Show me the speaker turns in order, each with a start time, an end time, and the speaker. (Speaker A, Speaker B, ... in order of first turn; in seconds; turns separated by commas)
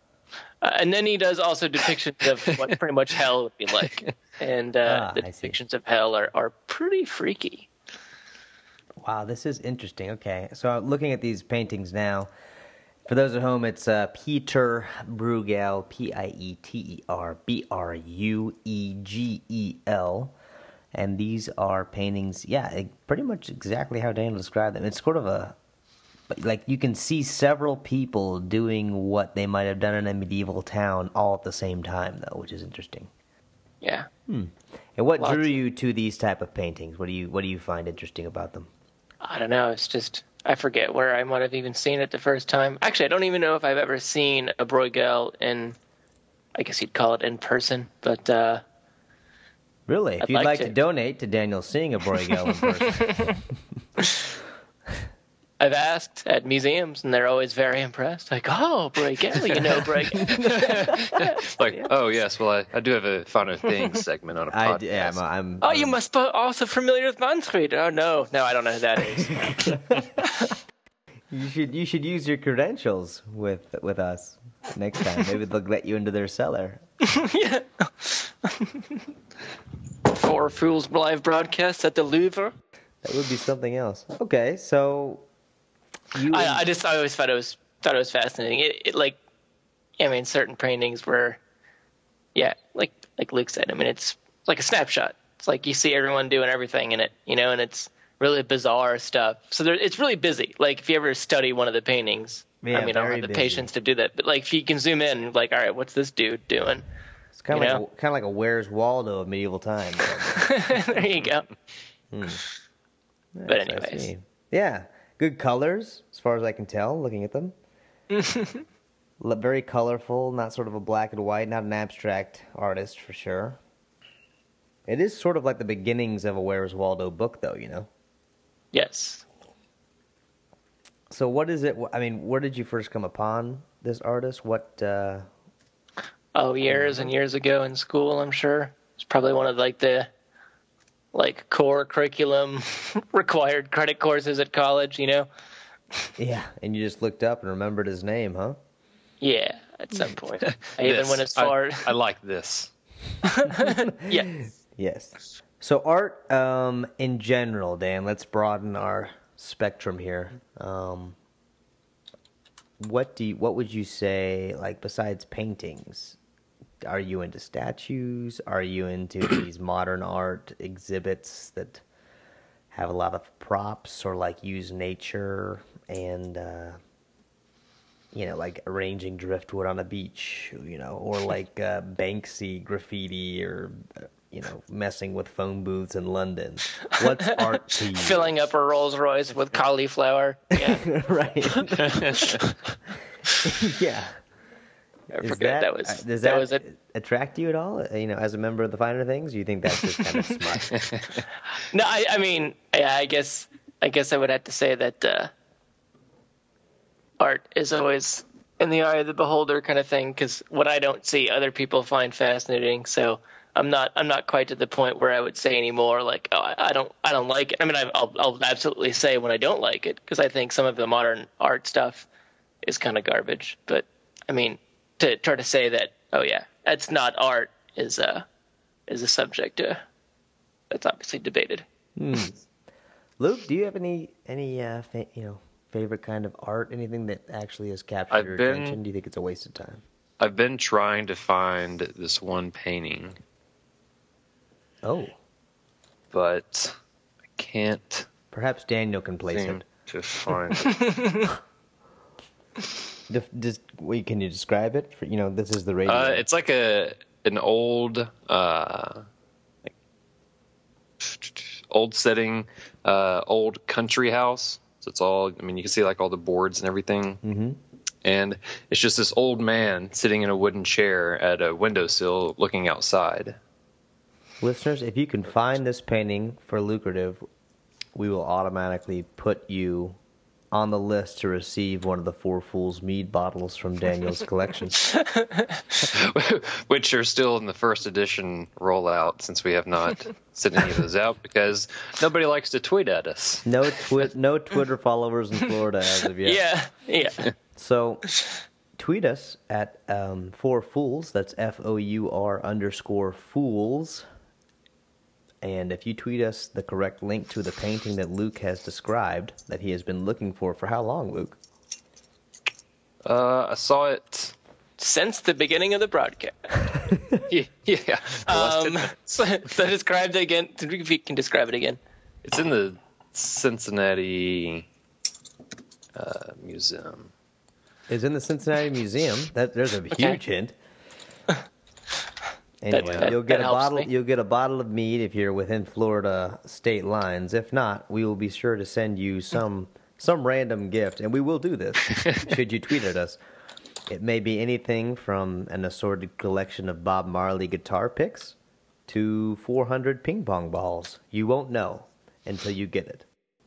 Speaker A: 0.6-7.7, Speaker B: 3.8-4.1, Speaker C: 4.8-5.6, Speaker C: 9.0-12.3, Speaker C: 13.1-20.4, Speaker C: 20.9-25.6, Speaker C: 26.3-33.1, Speaker A: 33.8-34.1, Speaker C: 34.3-38.7, Speaker A: 35.2-35.5, Speaker A: 39.2-45.8, Speaker A: 46.5-48.6, Speaker C: 49.9-53.6, Speaker A: 50.2-50.7, Speaker A: 52.6-53.4, Speaker A: 55.6-61.8, Speaker C: 60.2-61.2, Speaker B: 60.2-65.2, Speaker C: 64.5-66.0, Speaker A: 65.6-69.8, Speaker C: 69.2-70.2, Speaker C: 71.3-76.8, Speaker A: 77.0-78.8, Speaker A: 80.1-82.5, Speaker C: 83.0-85.2, Speaker C: 86.1-86.7, Speaker A: 86.3-89.2, Speaker A: 90.0-91.4, Speaker A: 92.3-106.8, Speaker C: 102.6-103.7, Speaker C: 107.3-110.5, Speaker A: 107.5-107.8, Speaker A: 110.3-111.5, Speaker C: 112.1-112.4, Speaker C: 113.4-117.5, Speaker A: 113.5-114.1, Speaker A: 118.1-118.6, Speaker C: 119.2-123.6, Speaker C: 124.9-127.9, Speaker A: 128.7-129.2, Speaker C: 131.1-135.3, Speaker A: 136.3-140.1, Speaker C: 136.7-137.1, Speaker A: 141.1-145.3, Speaker C: 146.2-148.6, Speaker A: 149.2-151.9, Speaker B: 150.5-152.7, Speaker A: 153.3-154.4, Speaker C: 153.6-161.2, Speaker C: 162.8-166.2, Speaker C: 166.9-171.8, Speaker C: 172.7-176.8, Speaker C: 178.1-188.4, Speaker A: 187.2-190.8, Speaker C: 190.6-192.4, Speaker B: 191.8-192.6, Speaker C: 193.4-194.2, Speaker A: 195.1-196.6, Speaker C: 195.2-200.9, Speaker B: 200.7-201.1, Speaker A: 201.6-205.3, Speaker A: 207.2-222.1, Speaker A: 222.6-228.3, Speaker A: 228.9-229.8, Speaker A: 230.7-231.7, Speaker C: 232.0-232.4, Speaker C: 233.2-239.8, Speaker B: 238.1-238.8, Speaker B: 240.2-243.2, Speaker C: 244.8-245.2, Speaker B: 246.1-246.8, Speaker B: 247.4-248.1, Speaker C: 248.3-249.7, Speaker B: 249.3-250.9, Speaker A: 250.6-251.3, Speaker C: 253.1-256.2, Speaker B: 255.9-259.1, Speaker B: 261.0-267.2, Speaker C: 267.2-267.6, Speaker B: 268.0-273.4, Speaker C: 274.4-277.2, Speaker C: 277.9-280.0, Speaker C: 280.5-284.8, Speaker A: 285.0-285.6, Speaker B: 285.8-293.5, Speaker C: 293.4-296.4, Speaker A: 296.2-297.3, Speaker C: 297.6-298.0, Speaker C: 298.8-304.1, Speaker C: 305.4-311.4, Speaker B: 313.0-314.3, Speaker A: 314.8-316.5, Speaker B: 317.2-319.2, Speaker A: 318.3-321.8, Speaker B: 322.2-324.7, Speaker B: 325.9-327.1, Speaker C: 327.9-330.6, Speaker A: 329.9-330.2, Speaker C: 332.6-343.2, Speaker A: 332.7-333.9, Speaker B: 332.8-333.1, Speaker C: 343.9-348.4, Speaker C: 348.9-353.1